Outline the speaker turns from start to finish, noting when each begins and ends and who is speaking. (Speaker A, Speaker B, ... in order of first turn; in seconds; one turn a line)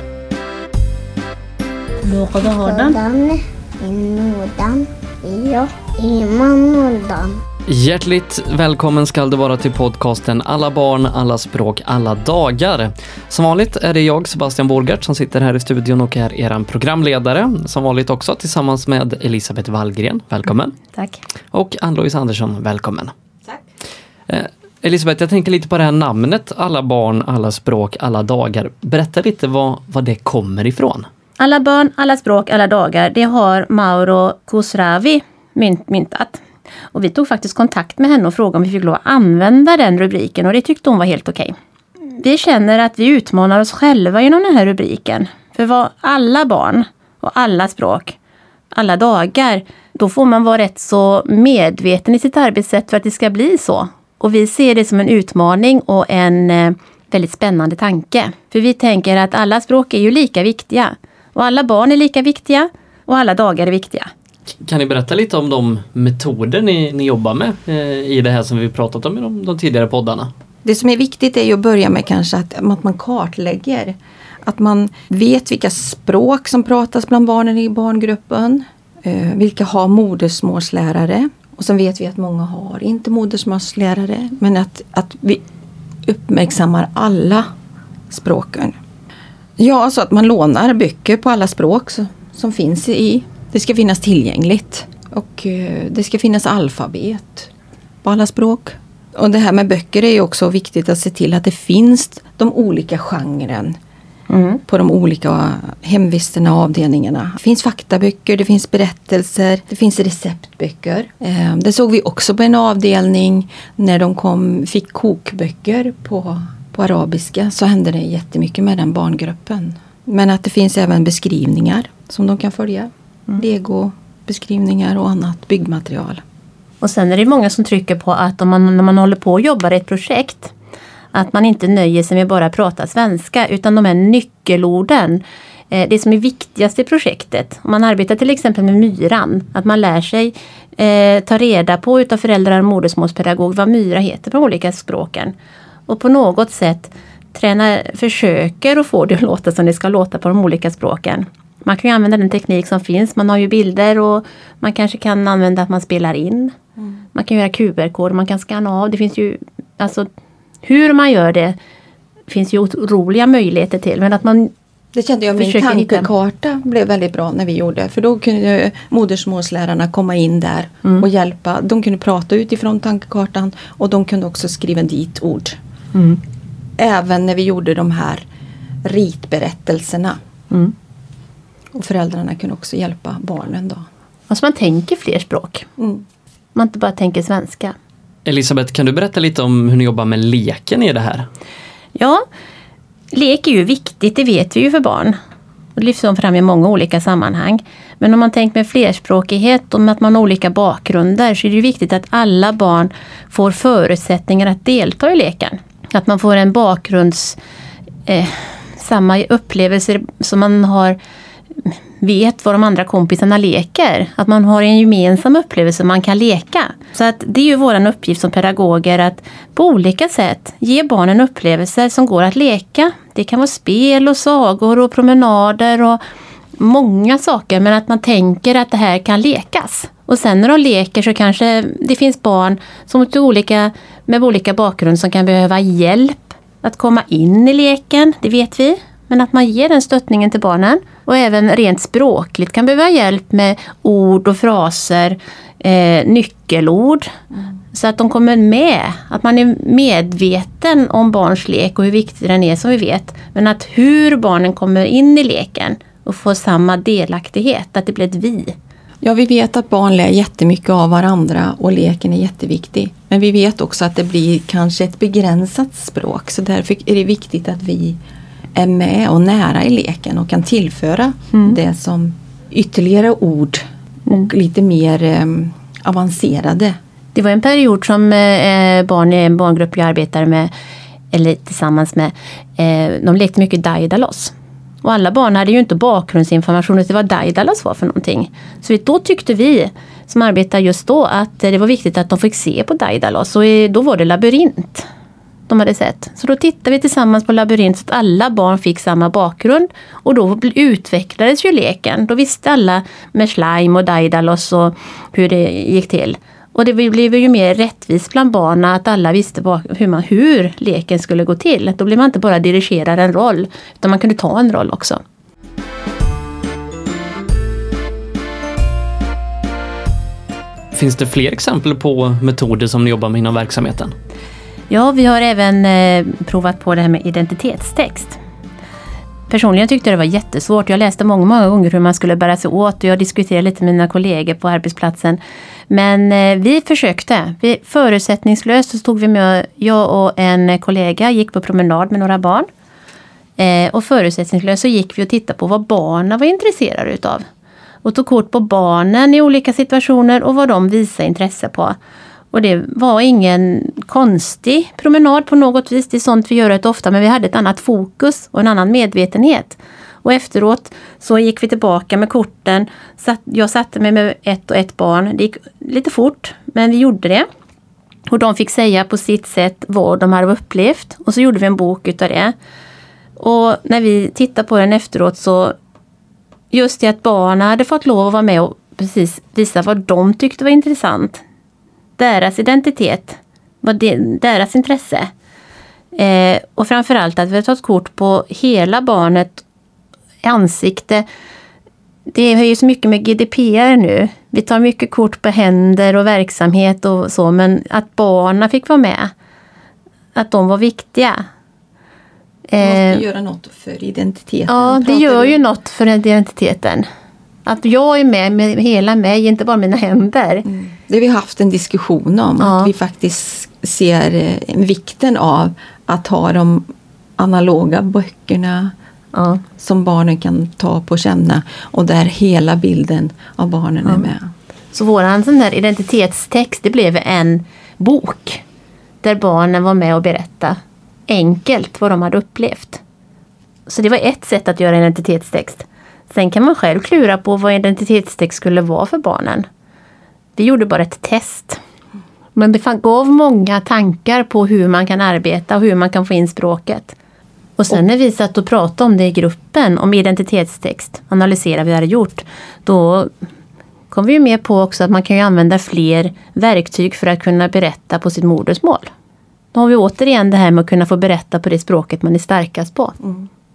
Speaker A: 2.1-3.0
Speaker B: 2.1-7.3
Speaker C: 7.7-20.8
Speaker C: 21.5-23.1
Speaker C: 24.3-31.1
Speaker A: 31.4-36.4
Speaker A: 36.9-41.6
Speaker A: 42.1-48.2
Speaker A: 48.7-64.1
Speaker C: 64.6-70.3
Speaker D: 70.6-85.4
Speaker D: 86.0-87.5
Speaker D: 88.1-88.8
Speaker D: 89.6-97.5
Speaker D: 98.0-103.8
Speaker A: 104.3-104.6
Speaker D: 104.7-126.2
Speaker A: 126.8-130.5
Speaker A: 131.1-145.3
Speaker A: 145.9-156.5
Speaker A: 157.1-160.1
Speaker A: 160.6-161.6
Speaker A: 162.3-164.5
Speaker D: 164.9-175.6
Speaker A: 165.3-166.1
Speaker A: 175.9-176.2
Speaker D: 176.8-178.2
Speaker D: 178.8-180.2
Speaker D: 181.7-183.8
Speaker A: 184.3-185.7
Speaker D: 185.8-186.0
Speaker A: 186.5-187.7
Speaker C: 188.2-191.2
Speaker A: 191.9-192.2
Speaker A: 193.1-195.2
Speaker A: 195.8-207.4
Speaker A: 208.1-211.0
Speaker A: 211.6-226.0
Speaker A: 226.6-247.1
Speaker A: 247.7-258.6
Speaker D: 259.0-268.0
Speaker D: 268.6-276.8
Speaker A: 277.1-280.5
Speaker A: 281.1-294.9
Speaker A: 295.5-315.0
Speaker C: 320.7-323.9
Speaker A: 324.7-328.2
Speaker A: 329.3-342.5
Speaker A: 343.4-347.2
Speaker A: 347.8-351.8
Speaker A: 352.3-367.3
Speaker A: 368.1-372.3
Speaker A: 373.2-375.6
Speaker A: 376.5-381.2
Speaker A: 382.0-385.1
Speaker A: 385.9-389.4
Speaker A: 390.2-391.1
Speaker A: 392.1-399.1
Speaker A: 400.1-401.2
Speaker A: 402.5-403.0
Speaker D: 402.6-405.4
Speaker A: 404.5-406.9
Speaker A: 407.5-410.5
Speaker D: 410.5-418.7
Speaker A: 412.4-412.7
Speaker A: 419.1-419.4
Speaker D: 419.6-424.3
Speaker A: 424.7-428.4
Speaker A: 429.0-432.8
Speaker A: 433.7-439.5
Speaker A: 440.4-441.6
Speaker A: 442.4-447.0
Speaker A: 447.6-453.1
Speaker A: 453.9-458.9
Speaker A: 459.5-463.0